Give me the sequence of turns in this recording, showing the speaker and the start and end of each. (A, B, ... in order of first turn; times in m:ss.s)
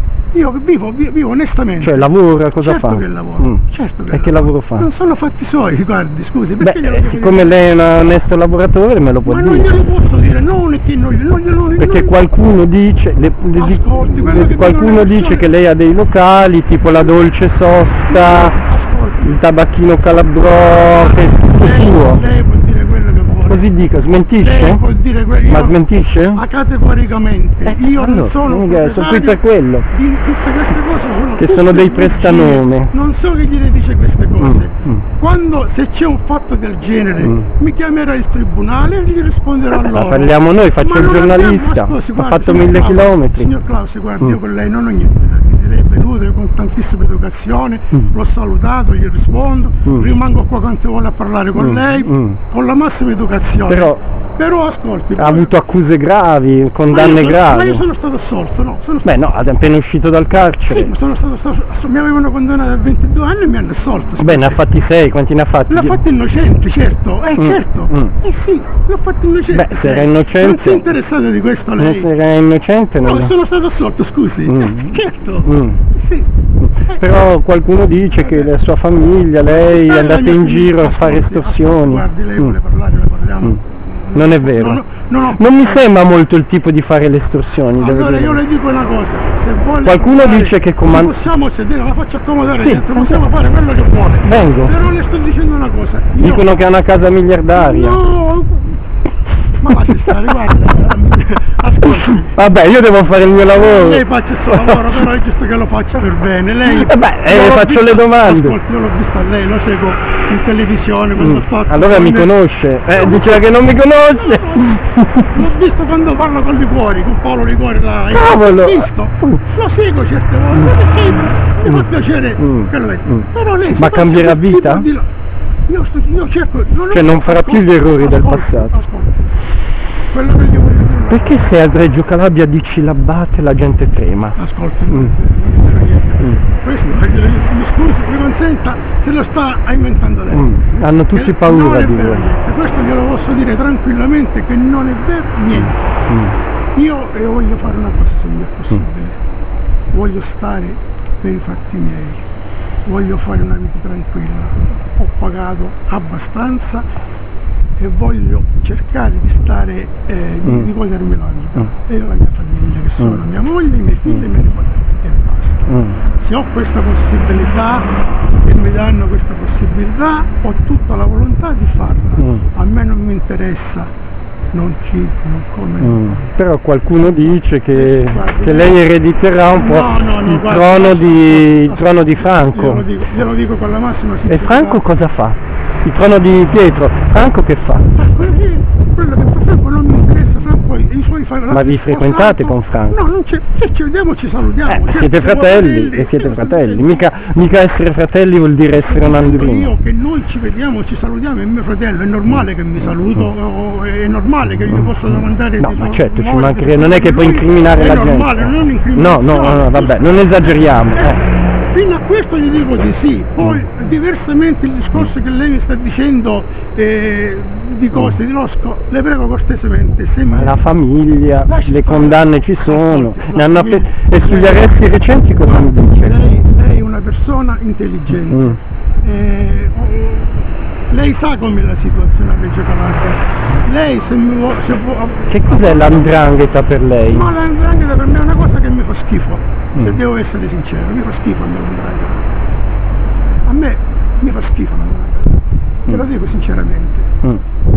0:00.3-0:07.5 A
0:01.8-0:04.9 B
0:06.6-0:09.7 B
0:09.2-0:12.1 A
0:11.8-0:18.6 B
0:13.5-0:15.5 A
0:18.1-0:19.4 A
0:19.2-0:22.3 B
0:21.0-0:23.7 A
0:23.5-0:24.8 B
0:24.4-0:25.8 A
0:25.5-0:26.4 B
0:26.3-0:55.5 A
0:27.7-0:29.9 B
0:31.4-0:32.9 B
0:34.4-0:35.0 B
0:39.8-0:43.5 B
0:51.6-0:52.4 B
0:53.7-0:54.0 B
0:55.2-0:57.8 B
0:56.9-0:59.1 A
0:59.0-1:00.9 B
1:00.7-1:04.6 A
1:04.2-1:06.0 B
1:05.7-1:12.1 A
1:07.4-1:08.1 B
1:09.5-1:10.9 B
1:11.8-1:13.3 B
1:13.0-1:17.0 A
1:14.4-1:15.8 B
1:16.7-1:22.5 B
1:18.1-1:18.5 A
1:19.5-1:25.8 A
1:24.1-1:28.4 B
1:27.8-1:36.6 A
1:29.8-1:31.2 B
1:32.6-1:33.2 B
1:34.2-1:34.8 B
1:36.2-1:38.0 B
1:37.5-1:38.8 A
1:39.6-1:42.4 A
1:42.1-1:44.1 B
1:43.5-1:52.3 A
1:46.6-1:48.6 B
1:51.2-1:55.4 B
1:52.9-2:05.1 A
1:58.1-1:59.4 B
2:02.4-2:04.8 B
2:05.7-2:09.1 A
2:06.9-2:08.7 B
2:10.1-2:11.5 A
2:11.1-2:14.4 B
2:14.4-2:25.8 A
2:20.3-2:22.3 B
2:25.6-2:26.4 B
2:26.7-2:29.2 A
2:29.9-2:32.2 A
2:32.8-2:36.9 A
2:37.8-2:53.9 A
2:45.7-2:46.0 B
2:52.2-2:52.4 B
2:54.5-2:56.3 A
2:55.8-3:02.9 B
2:57.7-2:58.8 A
2:59.5-3:04.8 A
3:04.3-3:07.9 B
3:07.9-3:17.1 A
3:11.5-3:13.0 B
3:14.7-3:19.7 B
3:18.8-3:40.6 A
3:25.6-3:31.2 B
3:40.3-3:46.2 B
3:41.4-3:44.8 A
3:45.4-3:56.2 A
3:48.2-3:48.6 B
3:55.3-3:57.3 B
3:57.1-4:02.2 A
4:03.4-4:07.1 A